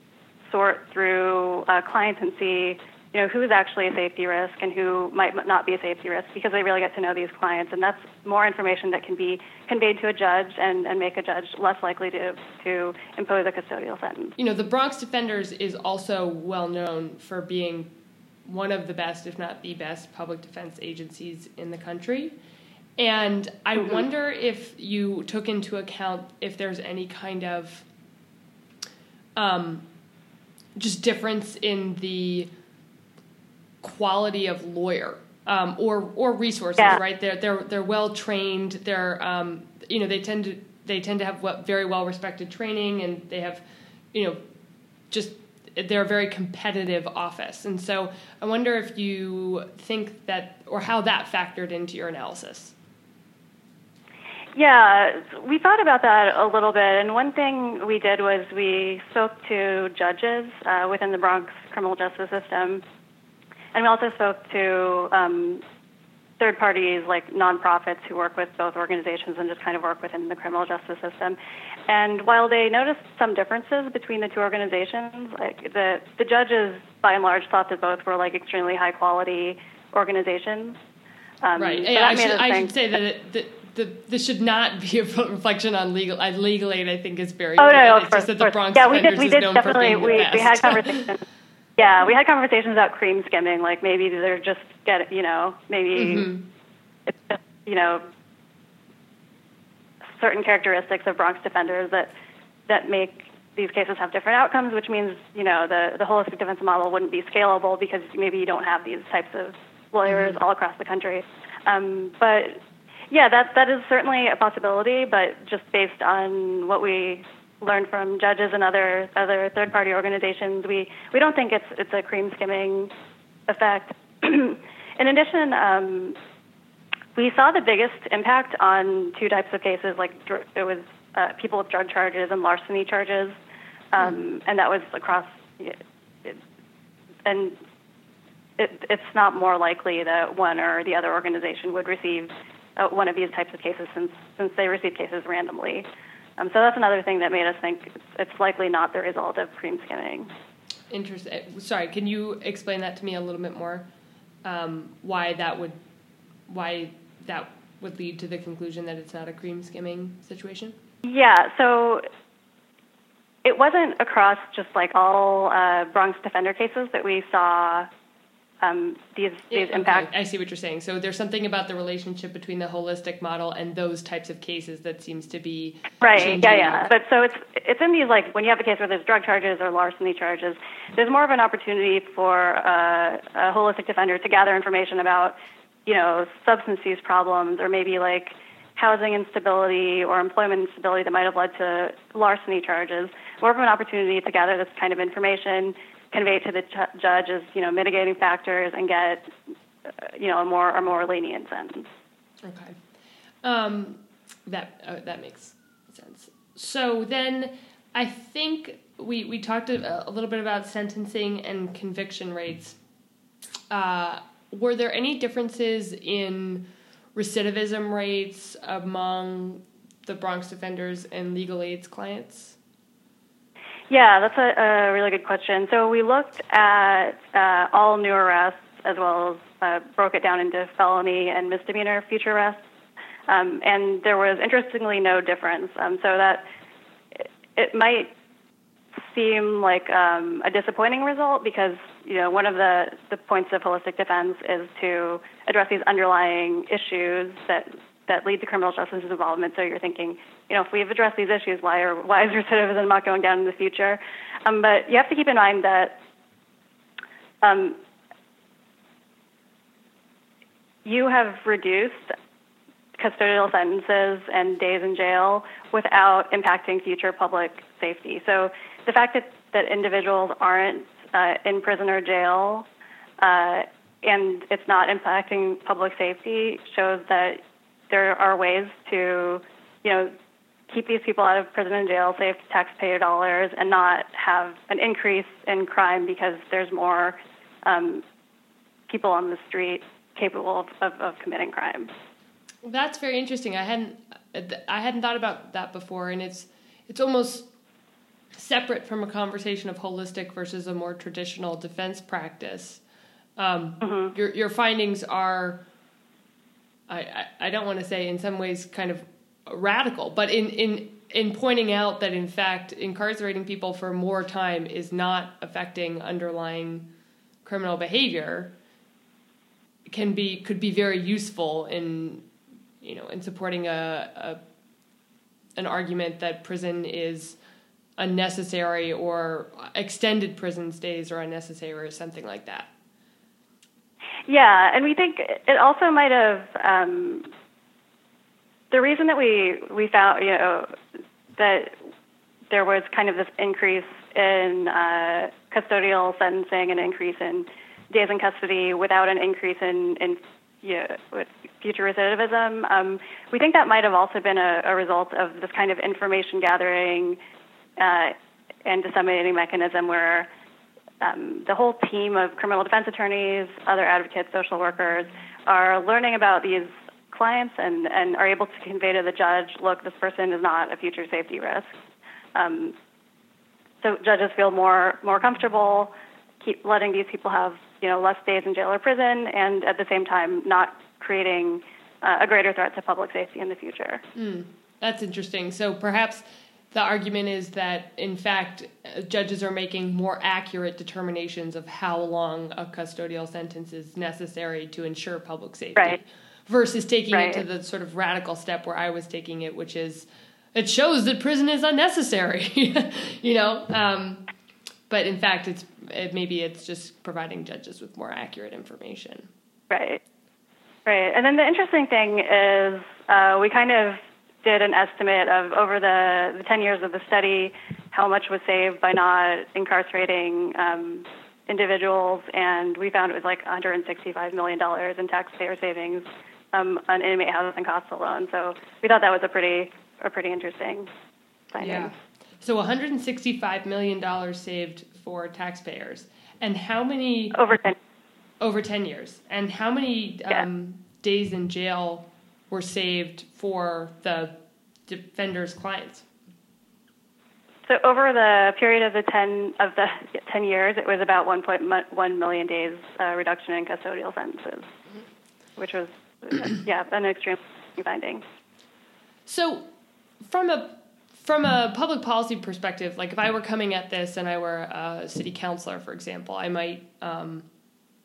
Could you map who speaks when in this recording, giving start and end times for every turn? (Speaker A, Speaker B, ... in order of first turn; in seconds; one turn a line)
Speaker A: 0.5-14.3
Speaker B: 14.4-17.9
Speaker B: 18.4-22.4
Speaker B: 23.0-27.9
Speaker B: 29.4-29.9
Speaker B: 30.8-32.5
Speaker B: 33.8-44.4
Speaker B: 45.1-52.8
Speaker A: 54.6-62.8
Speaker A: 63.8-65.6
Speaker A: 66.4-71.4
Speaker A: 71.9-80.8
Speaker A: 81.4-82.7
Speaker B: 81.6-91.1
Speaker A: 87.6-91.2
Speaker A: 91.8-96.3
Speaker B: 96.0-96.5
Speaker A: 97.1-98.0
Speaker A: 100.2-102.1
Speaker A: 102.7-112.6
Speaker B: 110.1-110.4
Speaker A: 113.1-122.9
Speaker A: 123.5-126.2
Speaker A: 127.2-133.4
Speaker A: 133.9-136.4
Speaker A: 137.3-137.6
Speaker A: 138.6-145.9
Speaker A: 146.4-150.3
Speaker B: 150.9-153.9
Speaker B: 154.4-155.8
Speaker B: 156.5-160.8
Speaker A: 161.0-162.0
Speaker A: 163.4-167.9
Speaker A: 168.6-170.1
Speaker B: 169.5-176.9
Speaker A: 176.0-185.3
Speaker A: 185.9-199.3
Speaker A: 199.9-201.9
Speaker B: 202.4-202.8
Speaker B: 203.4-212.8
Speaker B: 213.7-222.6
Speaker A: 223.9-232.6
Speaker A: 233.3-236.4
Speaker A: 237.2-238.1
Speaker A: 239.0-256.0
Speaker A: 257.4-257.8
Speaker A: 260.9-262.1
Speaker A: 263.0-272.7
Speaker A: 273.2-280.1
Speaker A: 280.7-288.0
Speaker A: 288.9-291.9
Speaker B: 292.6-297.5
Speaker B: 298.4-302.8
Speaker B: 303.4-305.6
Speaker B: 306.9-316.9
Speaker B: 317.4-318.5
Speaker B: 319.9-322.3
Speaker B: 322.8-324.4
Speaker B: 325.6-327.4
Speaker B: 328.0-332.7
Speaker A: 334.3-337.3
Speaker A: 338.7-340.8
Speaker A: 341.4-341.8
Speaker A: 342.5-357.2
Speaker A: 357.8-360.3
Speaker A: 361.0-371.7
Speaker A: 372.4-372.8
Speaker A: 373.8-384.0
Speaker B: 384.1-404.3
Speaker A: 397.1-397.4
Speaker B: 404.9-409.3
Speaker A: 409.7-410.0
Speaker A: 410.9-430.9
Speaker A: 431.5-431.9
Speaker B: 431.6-437.5
Speaker A: 437.3-437.8
Speaker B: 438.4-444.3
Speaker B: 444.9-446.1
Speaker A: 447.7-454.7
Speaker A: 455.6-458.2
Speaker B: 459.3-459.7
Speaker B: 460.2-467.5